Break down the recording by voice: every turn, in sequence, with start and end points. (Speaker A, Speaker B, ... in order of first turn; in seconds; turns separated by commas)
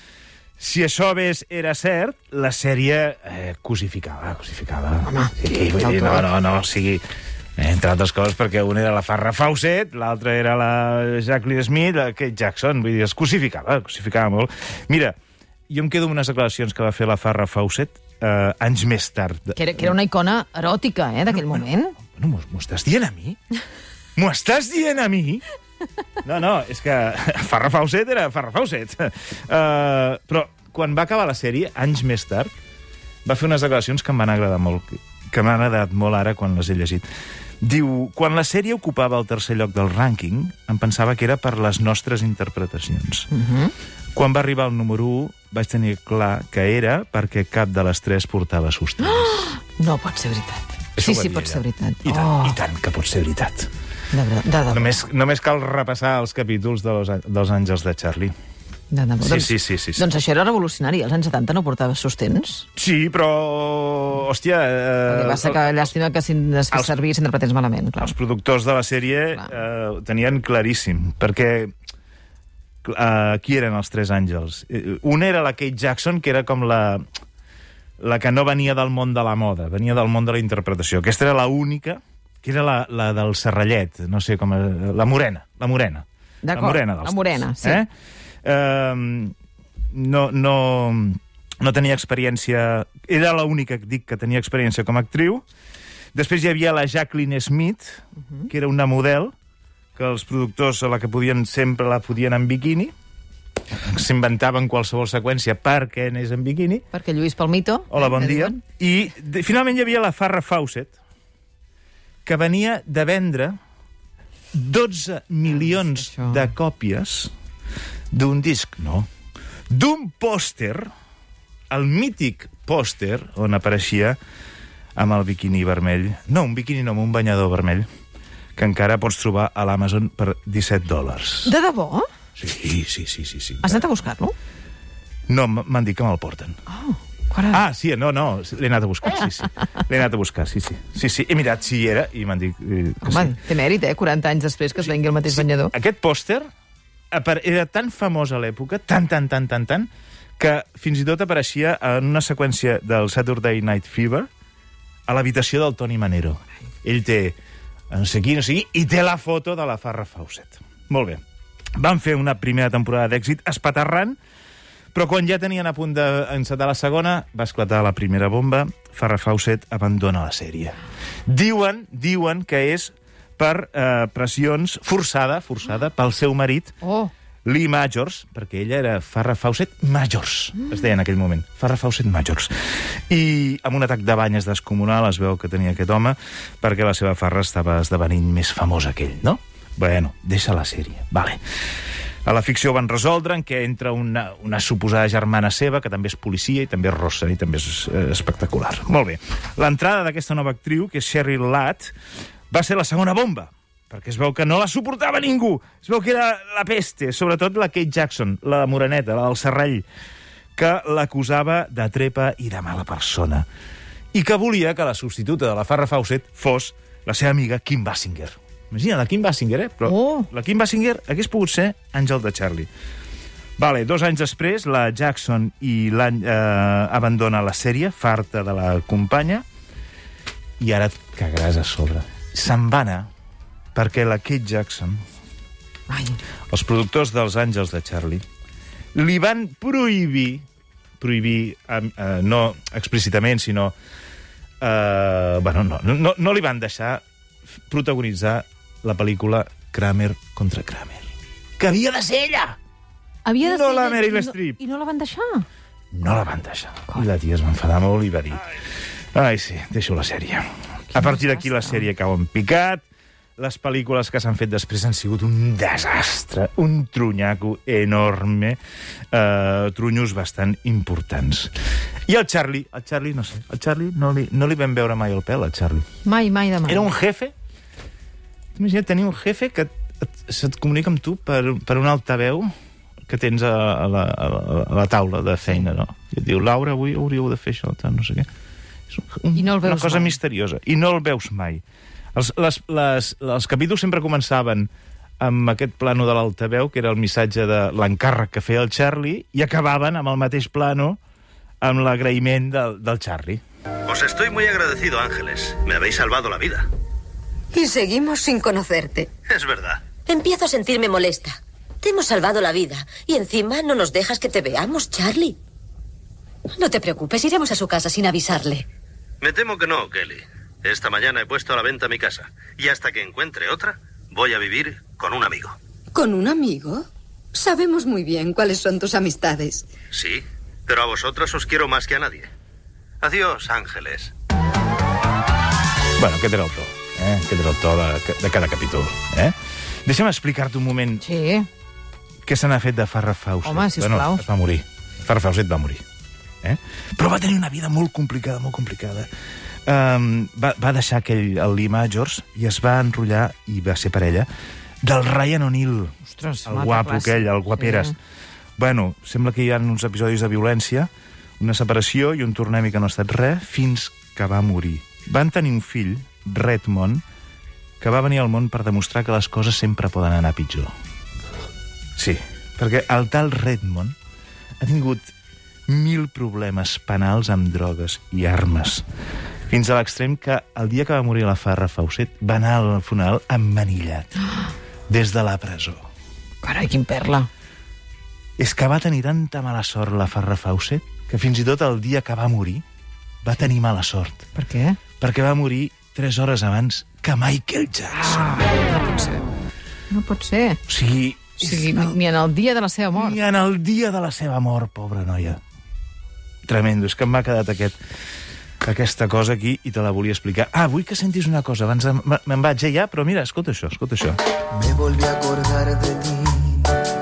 Speaker A: 0.6-7.0, Speaker B: 5.0-6.2, Speaker A: 7.6-15.1, Speaker A: 15.7-19.9, Speaker B: 19.6-21.9, Speaker A: 21.3-23.4, Speaker A: 24.1-25.4, Speaker A: 26.2-32.5, Speaker A: 33.2-37.0, Speaker A: 37.6-43.3, Speaker B: 43.3-43.7, Speaker A: 44.1-49.5, Speaker B: 49.0-52.6, Speaker A: 51.0-53.7, Speaker B: 54.1-55.0, Speaker A: 54.7-58.3, Speaker B: 58.9-62.7, Speaker A: 59.2-60.0, Speaker A: 62.7-65.9, Speaker B: 65.0-68.1, Speaker A: 66.7-67.0, Speaker A: 68.0-71.7, Speaker A: 72.8-77.0, Speaker A: 78.0-87.9, Speaker B: 86.4-87.8, Speaker A: 88.4-89.3, Speaker A: 89.9-95.4, Speaker A: 96.1-99.3, Speaker A: 100.0-102.9, Speaker A: 103.7-106.8, Speaker B: 106.9-108.6, Speaker A: 107.9-111.0, Speaker A: 112.2-113.5, Speaker A: 114.5-117.3, Speaker B: 115.7-116.4, Speaker A: 118.1-119.1, Speaker A: 119.7-120.9, Speaker A: 121.7-124.2, Speaker A: 125.0-127.9, Speaker A: 128.6-131.5, Speaker B: 131.4-132.1, Speaker A: 132.4-133.9, Speaker B: 133.6-134.3, Speaker A: 135.3-136.6, Speaker B: 136.7-137.6, Speaker A: 137.5-143.3, Speaker B: 143.0-145.7, Speaker A: 144.8-146.5, Speaker A: 147.1-154.3, Speaker A: 155.1-157.3, Speaker A: 157.9-161.2, Speaker A: 161.8-164.2, Speaker A: 164.9-176.7, Speaker B: 176.8-177.1, Speaker A: 177.4-182.5, Speaker A: 183.1-191.4, Speaker A: 192.2-201.9, Speaker A: 202.5-209.8, Speaker A: 210.6-213.4, Speaker A: 214.1-222.7, Speaker B: 219.8-220.3, Speaker A: 223.6-229.4, Speaker A: 230.6-233.1, Speaker A: 233.7-235.0, Speaker B: 235.9-236.2, Speaker A: 236.5-238.2, Speaker A: 238.9-240.4, Speaker A: 241.0-243.7, Speaker A: 244.6-247.0, Speaker A: 247.7-252.6, Speaker B: 253.2-255.4, Speaker A: 253.4-254.6, Speaker A: 255.9-258.5, Speaker A: 259.1-262.8, Speaker B: 260.9-261.6, Speaker A: 263.4-268.6, Speaker A: 269.1-271.5, Speaker A: 272.1-275.9, Speaker B: 276.0-276.9, Speaker A: 276.6-277.3, Speaker A: 278.6-282.5, Speaker A: 283.1-288.3, Speaker A: 288.9-291.6, Speaker B: 289.3-290.1, Speaker A: 292.1-294.7, Speaker A: 295.2-301.0, Speaker A: 301.6-303.4, Speaker C: 303.9-306.7, Speaker D: 307.5-309.1, Speaker C: 309.3-309.9, Speaker E: 310.1-315.4, Speaker E: 316.5-318.6, Speaker C: 319.2-325.6, Speaker D: 325.9-329.7, Speaker C: 329.9-332.3, Speaker C: 333.0-334.1, Speaker A: 335.9-341.0, Speaker B: 341.0-341.5, Speaker A: 342.2-345.8, Speaker B: 343.4-344.2, Speaker A: 346.4-349.1, Speaker A: 349.6-354.3, Speaker A: 354.8-357.9, Speaker B: 356.1-357.9, Speaker A: 358.6-367.0, Speaker A: 367.8-370.7, Speaker A: 372.0-373.9, Speaker A: 374.6-375.1, Speaker A: 375.7-378.8, Speaker A: 379.5-384.1, Speaker A: 384.9-385.8, Speaker B: 386.4-387.3, Speaker A: 388.4-392.6, Speaker A: 393.2-394.3, Speaker B: 394.4-394.8, Speaker A: 395.0-398.5, Speaker B: 398.1-399.2, Speaker B: 399.9-400.6, Speaker A: 400.7-401.9, Speaker B: 401.4-403.2, Speaker A: 402.9-405.4, Speaker A: 406.4-407.8, Speaker A: 408.6-414.2, Speaker F: 414.6-416.8